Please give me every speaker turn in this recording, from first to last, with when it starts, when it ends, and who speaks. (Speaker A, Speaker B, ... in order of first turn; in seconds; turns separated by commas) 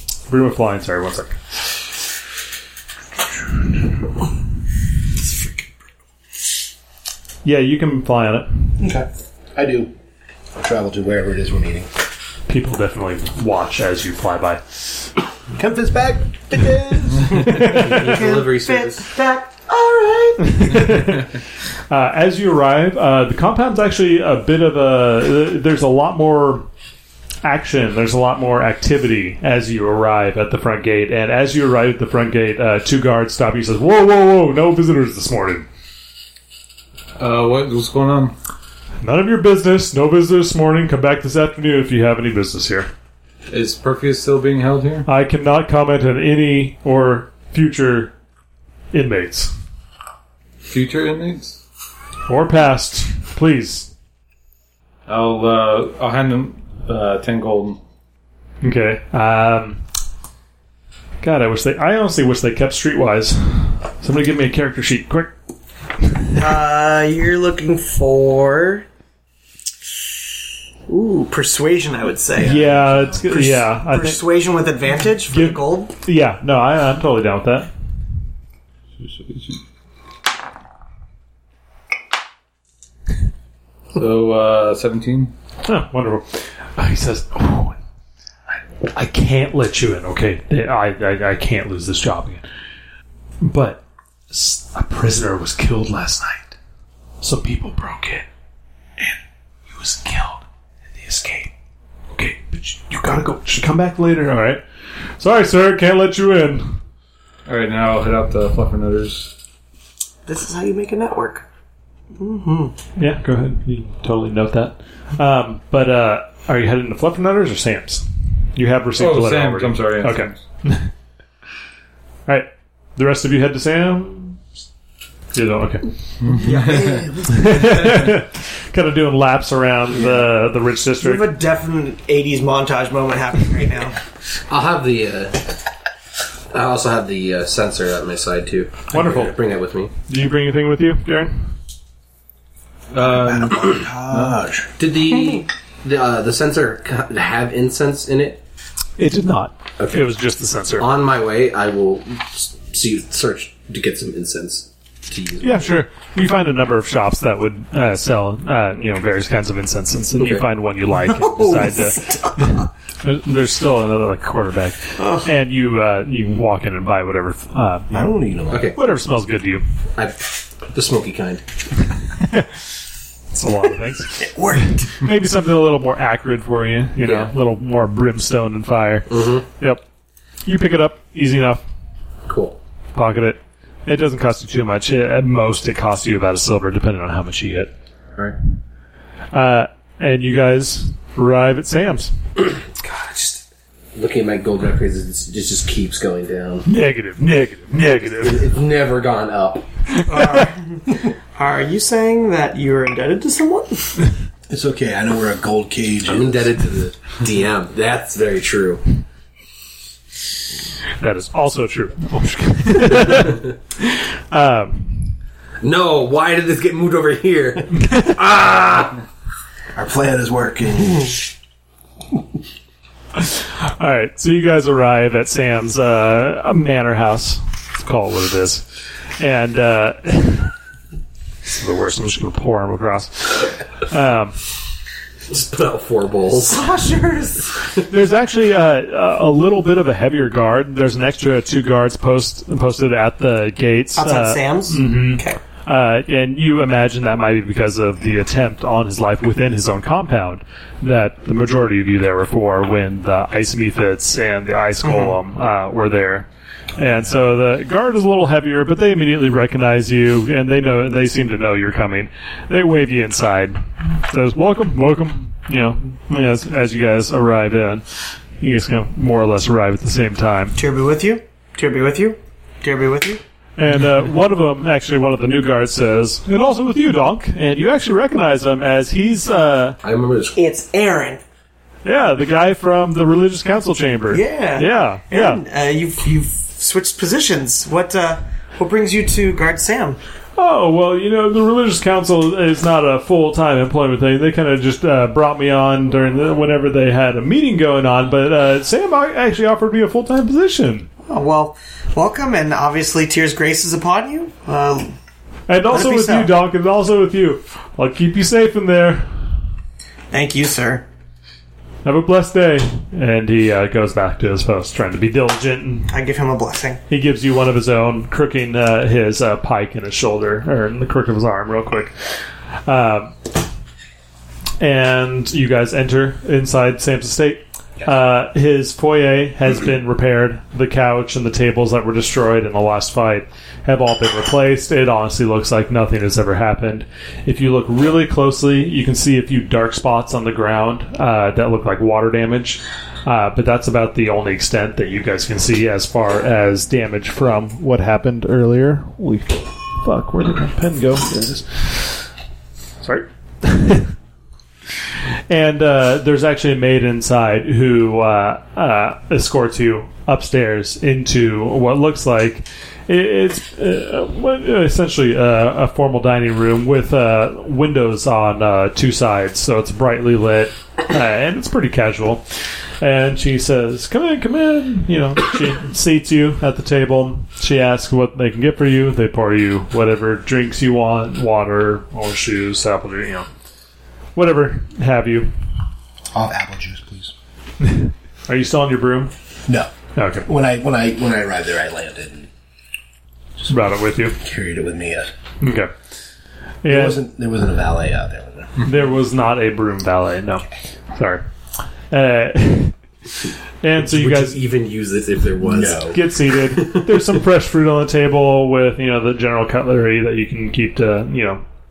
Speaker A: 0.3-1.7, Speaker A: 7.4-8.8, Speaker B: 8.8-9.9, Speaker B: 10.6-11.9, Speaker A: 12.5-15.0, Speaker B: 15.5-17.5, Speaker C: 17.3-20.9, Speaker A: 17.4-18.0, Speaker D: 17.5-19.1, Speaker A: 20.4-21.4, Speaker A: 21.9-26.7, Speaker A: 27.4-35.6, Speaker E: 37.2-38.4, Speaker A: 39.0-42.9, Speaker E: 43.5-45.1, Speaker A: 45.0-48.1, Speaker A: 48.9-49.5, Speaker E: 50.7-51.6, Speaker A: 52.3-53.9, Speaker E: 55.1-57.8, Speaker A: 58.6-59.8, Speaker A: 61.2-65.3, Speaker A: 66.0-66.4, Speaker C: 66.3-68.8, Speaker C: 70.9-75.9, Speaker A: 72.4-74.2, Speaker A: 75.3-77.7, Speaker E: 79.0-79.6, Speaker E: 83.9-85.3, Speaker A: 85.6-87.8, Speaker A: 88.5-92.4, Speaker A: 93.4-96.6, Speaker A: 97.2-98.2, Speaker A: 99.7-100.4, Speaker A: 101.0-101.5, Speaker A: 102.1-104.6, Speaker A: 105.2-106.8, Speaker E: 107.5-109.3, Speaker C: 110.2-111.4, Speaker C: 112.2-112.8, Speaker A: 113.0-120.9, Speaker E: 119.0-120.4, Speaker A: 122.3-124.4, Speaker A: 125.3-125.9, Speaker E: 126.2-127.1, Speaker C: 126.4-127.6, Speaker B: 126.7-127.5, Speaker A: 127.2-131.3, Speaker C: 131.0-134.0, Speaker D: 134.5-135.5, Speaker D: 136.5-139.9, Speaker A: 138.9-139.4, Speaker A: 140.1-141.5, Speaker E: 142.9-144.4, Speaker B: 143.0-144.7, Speaker D: 144.8-148.4, Speaker A: 149.0-150.9, Speaker D: 149.8-150.1, Speaker D: 150.8-155.7, Speaker A: 155.4-168.1, Speaker D: 160.2-160.4, Speaker C: 161.0-162.6, Speaker C: 165.0-165.3, Speaker B: 167.9-168.7, Speaker D: 168.5-168.8, Speaker A: 168.7-169.6, Speaker D: 169.9-171.4, Speaker A: 172.2-172.5, Speaker A: 173.3-179.8, Speaker C: 174.2-174.9, Speaker D: 177.0-177.3, Speaker D: 179.1-179.5, Speaker A: 180.4-181.6, Speaker D: 182.2-182.6, Speaker A: 182.9-187.7, Speaker A: 189.3-192.2, Speaker D: 192.6-193.4, Speaker D: 193.9-196.7, Speaker A: 196.6-198.5, Speaker D: 198.2-199.7, Speaker A: 199.9-200.5, Speaker C: 200.1-204.1, Speaker B: 204.5-206.6, Speaker D: 206.1-208.8, Speaker A: 211.0-215.1, Speaker D: 215.6-219.0, Speaker A: 217.8-218.1, Speaker B: 219.7-221.2, Speaker A: 223.2-228.7, Speaker A: 229.2-230.5, Speaker A: 231.4-234.4, Speaker D: 235.3-236.7, Speaker C: 236.5-237.5, Speaker A: 237.8-267.8, Speaker C: 243.9-245.4, Speaker C: 254.8-255.1, Speaker A: 268.4-270.6, Speaker C: 270.6-273.2, Speaker A: 273.6-279.8, Speaker D: 279.8-280.4, Speaker C: 280.4-281.2, Speaker A: 281.8-285.4, Speaker C: 284.1-290.0, Speaker A: 290.4-300.9, Speaker C: 301.1-304.9, Speaker A: 305.5-309.1, Speaker C: 305.7-306.3, Speaker C: 310.1-310.8, Speaker A: 311.8-315.9, Speaker C: 315.9-316.8, Speaker A: 316.9-322.0, Speaker A: 322.6-323.1, Speaker A: 324.6-352.1, Speaker A: 352.8-353.9, Speaker A: 355.3-372.2, Speaker A: 372.8-383.3, Speaker A: 384.1-385.3, Speaker B: 386.1-387.1, Speaker A: 387.6-389.1, Speaker A: 389.9-390.3, Speaker B: 390.2-392.3, Speaker A: 393.5-394.2, Speaker B: 394.1-395.1, Speaker A: 395.4-395.7, Speaker A: 396.6-397.0, Speaker B: 396.6-398.6, Speaker A: 398.6-401.2, Speaker A: 401.9-402.8, Speaker A: 403.6-404.4, Speaker D: 403.8-407.1, Speaker B: 405.4-406.0, Speaker A: 405.7-411.4